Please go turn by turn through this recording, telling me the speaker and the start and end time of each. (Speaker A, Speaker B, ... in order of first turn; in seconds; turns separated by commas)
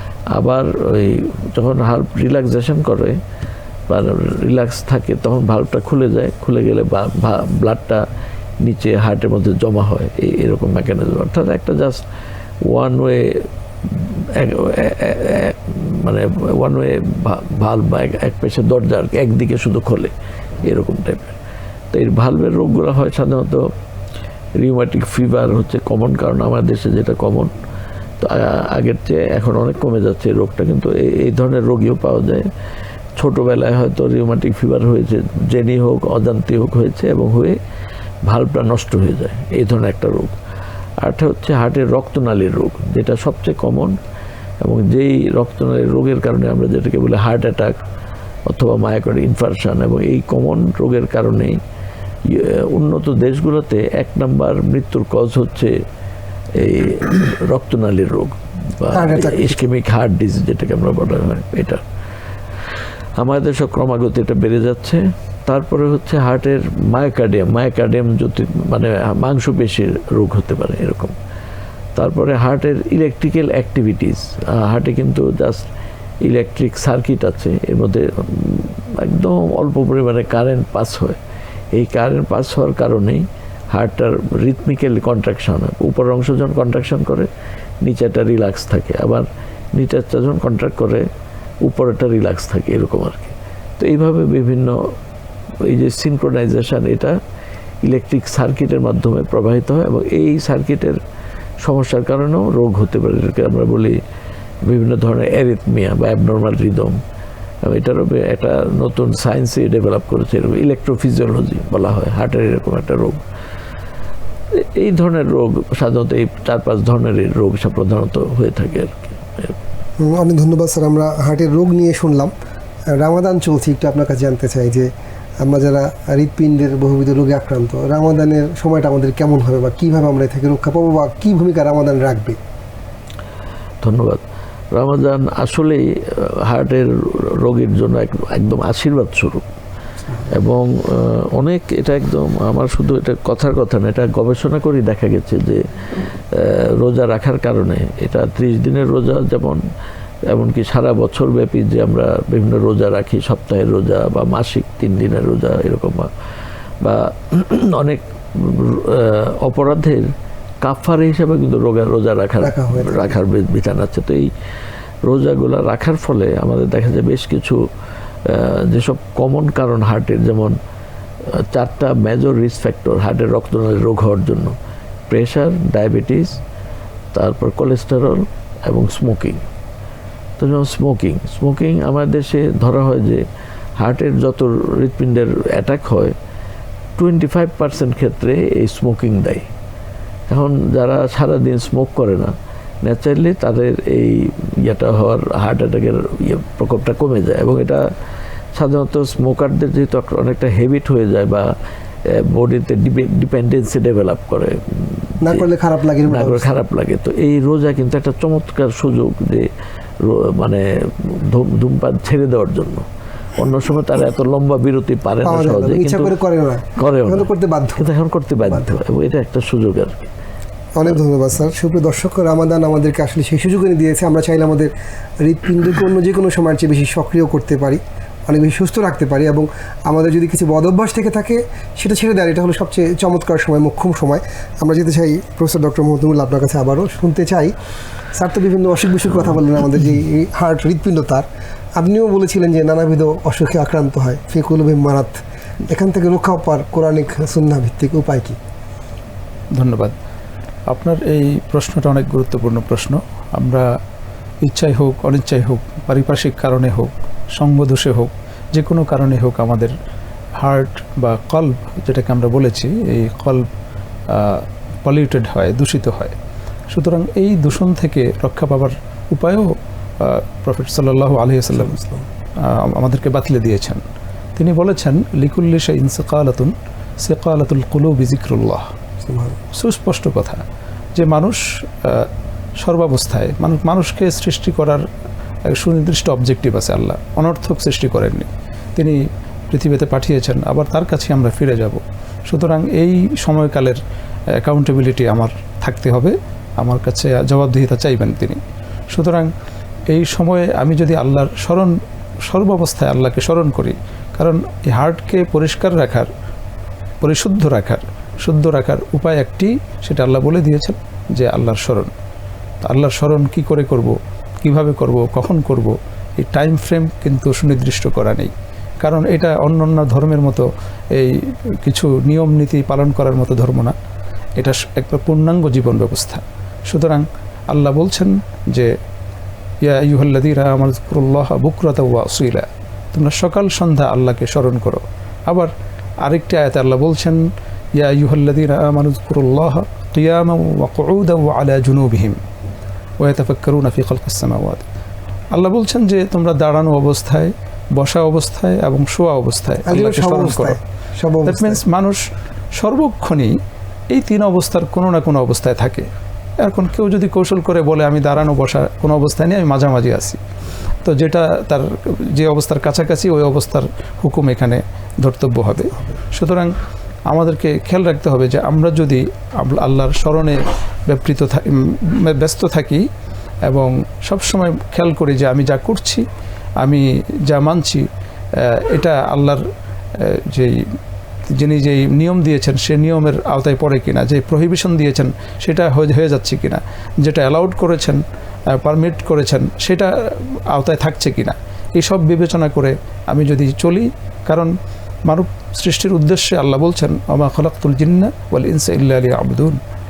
Speaker A: 0.3-3.2, Speaker A: 3.9-8.0, Speaker A: 8.6-12.0, Speaker A: 12.6-20.1, Speaker A: 20.6-21.4, Speaker A: 21.9-23.6, Speaker A: 24.6-27.5, Speaker A: 28.2-32.5, Speaker A: 33.2-37.6, Speaker A: 38.3-40.3, Speaker A: 41.0-43.9, Speaker A: 44.6-47.7, Speaker A: 48.5-51.6, Speaker A: 52.3-55.7, Speaker A: 56.6-61.8, Speaker B: 58.9-59.6, Speaker A: 63.2-71.1, Speaker A: 72.0-75.6, Speaker A: 76.2-81.2, Speaker A: 81.7-87.3, Speaker A: 87.8-91.0, Speaker A: 91.7-94.7, Speaker A: 95.7-97.1, Speaker A: 97.8-101.0, Speaker A: 101.6-103.9, Speaker A: 104.7-107.0, Speaker A: 107.7-113.2, Speaker A: 114.8-119.6, Speaker B: 120.0-122.3, Speaker B: 122.9-124.9, Speaker B: 125.4-132.4, Speaker A: 133.8-134.2, Speaker A: 134.7-139.4, Speaker A: 140.3-145.6, Speaker A: 146.3-149.6, Speaker A: 150.3-156.1, Speaker A: 156.8-160.1, Speaker A: 160.6-164.3, Speaker B: 162.4-163.2, Speaker A: 165.1-167.6, Speaker A: 168.2-170.5, Speaker A: 171.5-174.5, Speaker A: 175.1-176.4, Speaker A: 177.1-179.4, Speaker A: 180.4-183.2, Speaker A: 183.8-186.1, Speaker A: 187.0-189.4, Speaker A: 190.3-192.3, Speaker A: 192.8-197.8, Speaker A: 198.6-201.5, Speaker A: 202.3-205.5, Speaker B: 205.2-206.5, Speaker A: 206.1-209.5, Speaker A: 210.0-212.8, Speaker A: 213.3-216.1, Speaker B: 215.2-217.8, Speaker A: 216.8-219.9, Speaker B: 218.4-218.8, Speaker B: 220.8-224.7, Speaker B: 225.2-237.5, Speaker B: 238.1-241.2, Speaker B: 241.8-248.4, Speaker C: 249.6-249.9, Speaker C: 250.7-253.7, Speaker C: 254.4-259.7, Speaker C: 260.4-263.5, Speaker C: 264.1-266.1, Speaker C: 266.7-271.8, Speaker B: 271.5-272.1, Speaker C: 272.4-273.8, Speaker C: 274.4-278.6, Speaker B: 279.0-279.4, Speaker C: 279.5-280.4, Speaker C: 280.9-284.8, Speaker C: 285.4-289.0, Speaker C: 289.5-293.8, Speaker C: 294.4-299.3, Speaker C: 299.9-306.1, Speaker C: 307.0-311.9, Speaker C: 312.6-323.7, Speaker C: 324.4-328.7, Speaker C: 329.6-335.5, Speaker C: 336.0-337.2, Speaker C: 337.8-342.2, Speaker C: 343.0-344.6, Speaker C: 345.3-350.6, Speaker B: 349.6-351.6, Speaker C: 351.2-352.0, Speaker C: 352.5-353.3, Speaker C: 353.9-355.9, Speaker C: 356.4-360.2, Speaker C: 360.8-366.5, Speaker C: 367.1-372.8, Speaker C: 373.4-376.0, Speaker C: 376.6-377.9, Speaker C: 378.4-379.4, Speaker C: 380.0-380.6, Speaker C: 381.3-388.0, Speaker C: 388.6-394.5, Speaker C: 395.1-399.6